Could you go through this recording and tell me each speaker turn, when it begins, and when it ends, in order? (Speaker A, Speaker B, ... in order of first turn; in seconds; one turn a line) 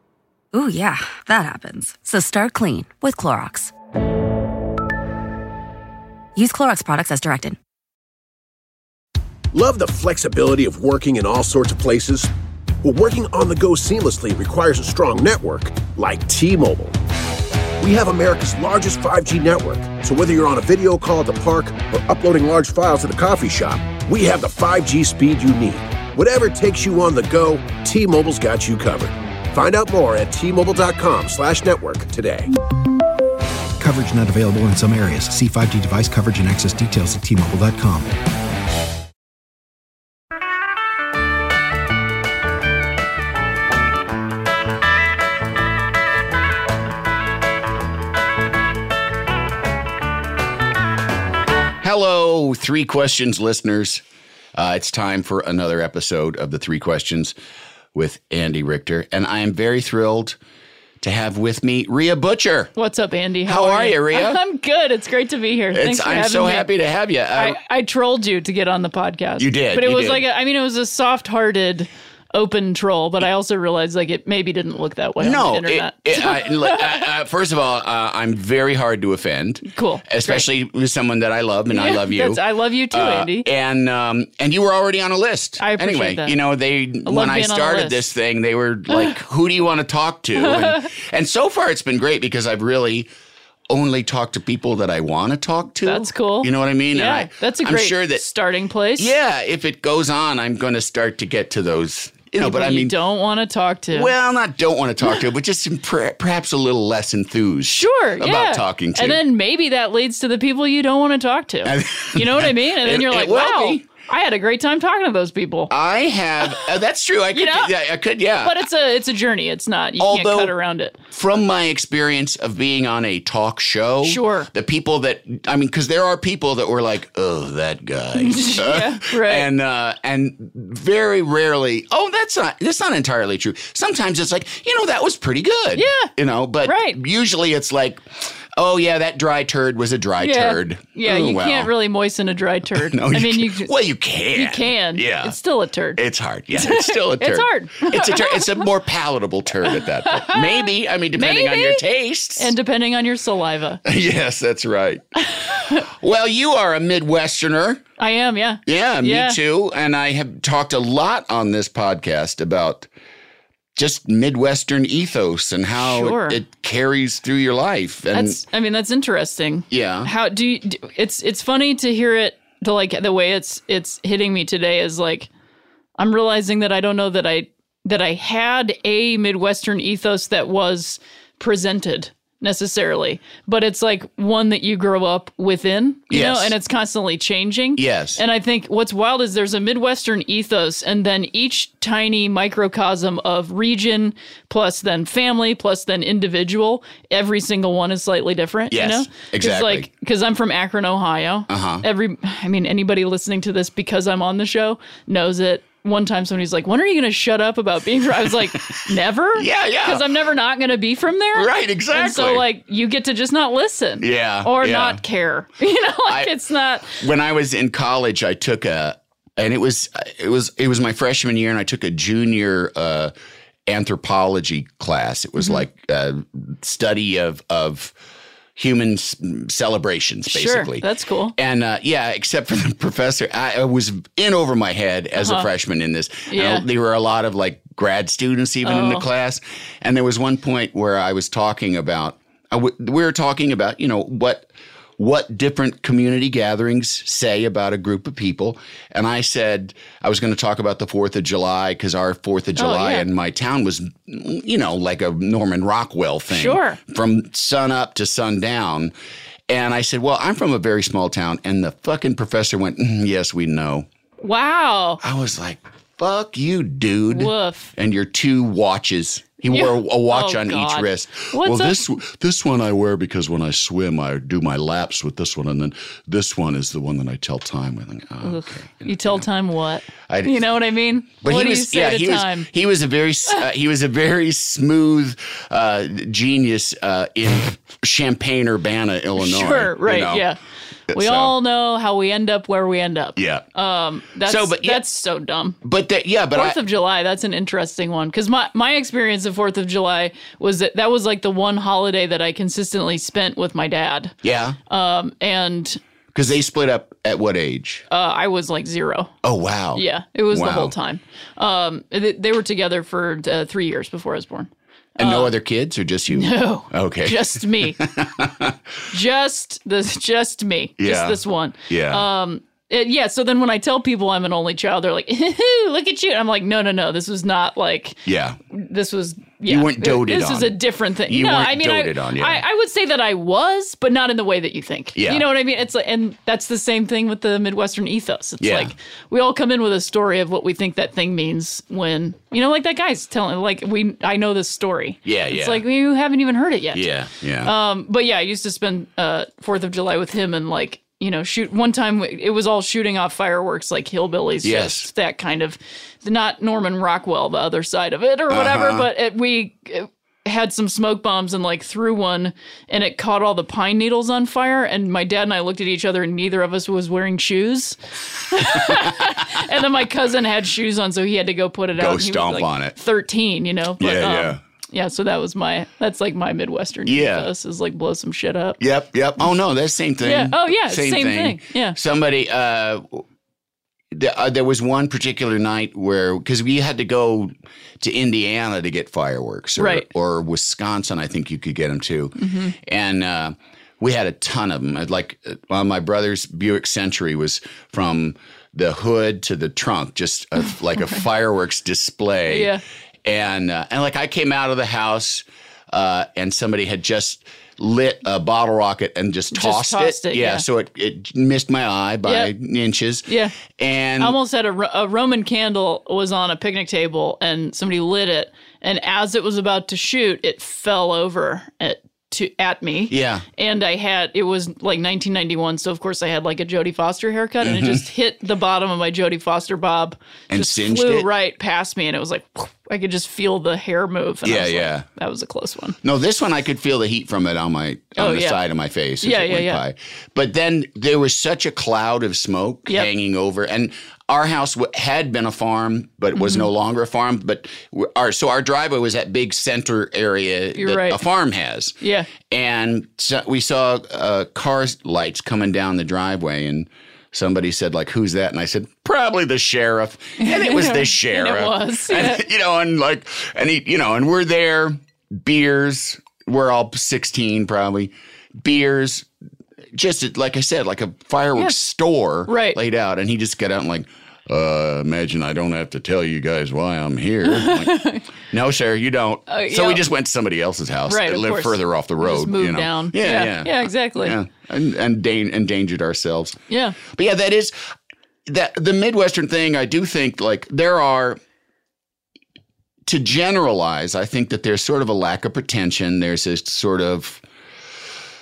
Speaker A: 0.5-3.7
Speaker A: 6.4-7.6
Speaker B: 9.5-12.3
Speaker B: 12.8-17.0
Speaker B: 17.8-32.5
Speaker C: 33.8-38.1
Speaker D: 51.8-54.0
Speaker D: 54.5-57.4
Speaker D: 57.9-60.4
Speaker D: 61.0-62.7
Speaker E: 62.8-66.7
Speaker D: 63.5-64.4
Speaker D: 65.7-67.6
Speaker E: 67.3-77.0
Speaker D: 69.4-70.3
Speaker D: 75.2-93.1
Speaker E: 79.7-80.5
Speaker E: 81.7-83.5
Speaker E: 85.6-86.4
Speaker E: 87.1-88.0
Speaker E: 88.9-89.2
Speaker E: 90.4-90.9
Speaker D: 93.7-98.2
Speaker E: 95.8-99.2
Speaker D: 99.0-102.9
Speaker E: 102.4-104.1
Speaker D: 103.9-109.2
Speaker E: 107.7-115.7
Speaker D: 111.7-113.9
Speaker D: 115.7-118.7
Speaker E: 117.3-117.7
Speaker E: 118.4-121.0
Speaker D: 120.0-120.5
Speaker D: 121.1-141.7
Speaker E: 124.0-124.5
Speaker E: 128.2-129.5
Speaker E: 135.8-136.1
Speaker E: 136.6-137.0
Speaker E: 140.2-143.7
Speaker D: 142.7-145.4
Speaker E: 144.3-146.0
Speaker D: 145.9-152.5
Speaker E: 146.5-148.6
Speaker E: 149.7-151.8
Speaker E: 152.4-153.8
Speaker D: 153.8-155.0
Speaker E: 155.3-155.8
Speaker D: 155.7-157.8
Speaker E: 158.0-159.4
Speaker D: 158.7-162.9
Speaker D: 163.8-168.4
Speaker E: 165.8-166.4
Speaker E: 168.1-175.3
Speaker D: 169.7-170.1
Speaker E: 176.0-217.0
Speaker D: 186.1-186.6
Speaker D: 187.8-188.2
Speaker D: 198.7-199.9
Speaker D: 201.5-201.8
Speaker D: 208.5-208.8
Speaker D: 209.3-210.1
Speaker D: 211.3-212.4
Speaker D: 214.0-215.0
Speaker D: 216.1-216.3
Speaker D: 216.9-223.1
Speaker D: 223.7-227.9
Speaker E: 225.4-225.7
Speaker D: 228.6-258.9
Speaker E: 230.3-231.3
Speaker E: 235.2-235.5
Speaker E: 236.3-236.7
Speaker E: 238.6-239.1
Speaker E: 252.6-253.1
Speaker E: 256.3-256.8
Speaker D: 259.5-263.9
Speaker E: 264.2-265.0
Speaker D: 265.0-279.2
Speaker E: 267.1-267.7
Speaker E: 269.5-271.8
Speaker E: 278.2-282.5
Speaker D: 280.1-280.5
Speaker D: 281.2-290.3
Speaker E: 289.2-290.4
Speaker D: 290.9-291.3
Speaker E: 290.9-295.6
Speaker D: 293.2-293.4
Speaker D: 294.2-294.8
Speaker D: 295.6-296.6
Speaker E: 296.3-304.2
Speaker D: 304.2-304.6
Speaker E: 304.7-305.8
Speaker D: 306.1-307.9
Speaker E: 307.9-309.1
Speaker D: 309.2-310.7
Speaker E: 309.8-315.3
Speaker D: 315.0-318.6
Speaker E: 316.1-317.8
Speaker E: 318.9-346.9
Speaker D: 320.8-322.1
Speaker D: 328.1-328.4
Speaker D: 329.5-332.4
Speaker D: 335.0-335.3
Speaker D: 338.4-338.7
Speaker D: 345.1-345.6
Speaker D: 346.7-347.5
Speaker E: 347.4-378.6
Speaker D: 354.4-354.9
Speaker D: 358.3-358.9
Speaker D: 368.5-369.4
Speaker D: 371.8-372.8
Speaker D: 373.8-374.4
Speaker D: 376.9-377.3
Speaker D: 378.6-383.1
Speaker E: 380.0-381.8
Speaker D: 383.9-414.2
Speaker E: 389.6-389.9
Speaker E: 392.2-392.6
Speaker E: 402.3-402.6
Speaker E: 409.3-410.4
Speaker E: 412.1-412.3
Speaker E: 413.1-413.4
Speaker E: 414.0-435.8
Speaker D: 422.9-423.2
Speaker D: 427.4-427.9
Speaker D: 430.3-431.1
Speaker D: 434.2-434.9
Speaker D: 435.8-469.1
Speaker E: 438.0-438.4
Speaker E: 439.0-439.6
Speaker E: 446.1-446.5
Speaker E: 450.6-451.0
Speaker E: 451.8-452.1
Speaker E: 460.2-462.3
Speaker D: 469.7-487.6
Speaker E: 472.3-472.6
Speaker E: 477.2-478.1
Speaker E: 479.3-479.8
Speaker E: 480.9-484.2
Speaker E: 486.5-486.8
Speaker D: 488.3-491.2
Speaker D: 492.9-497.2